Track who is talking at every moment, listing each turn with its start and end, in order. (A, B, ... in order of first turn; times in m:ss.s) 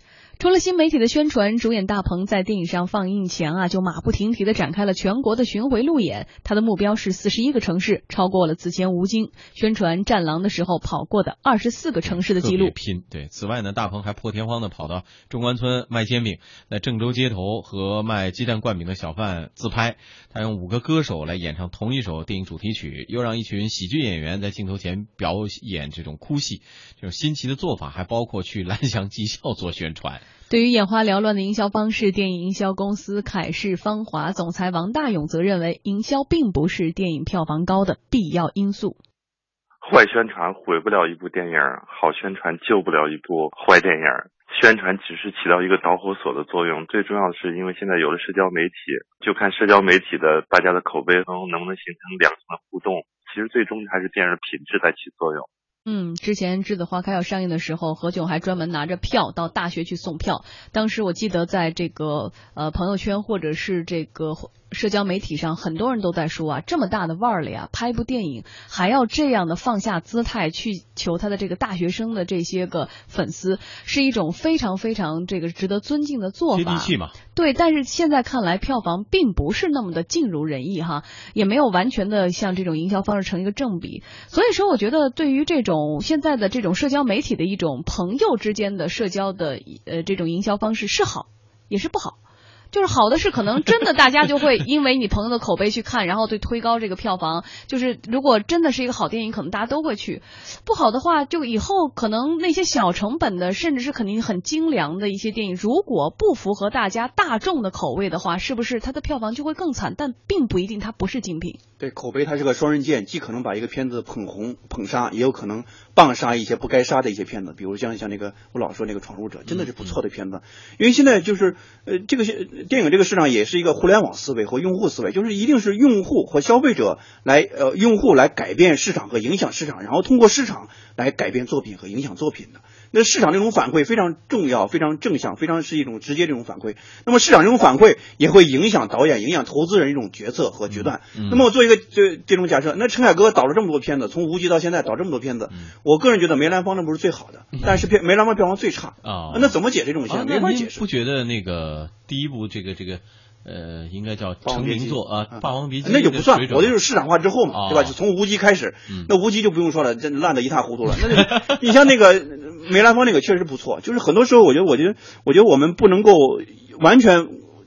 0:00.4-0:12.7 A
0:12.0-0:30.2 B
0:30.5-0:39.0 A
0:39.8-0:55.5 C
0:55.9-1:32.2 A
1:16.5-1:17.1 B
1:32.7-1:51.6 A
1:51.8-2:30.8 D
1:59.5-2:00.0 B
2:20.7-2:21.5 B
2:29.0-2:36.8 B
2:34.4-2:47.4 D
2:37.5-2:38.0 B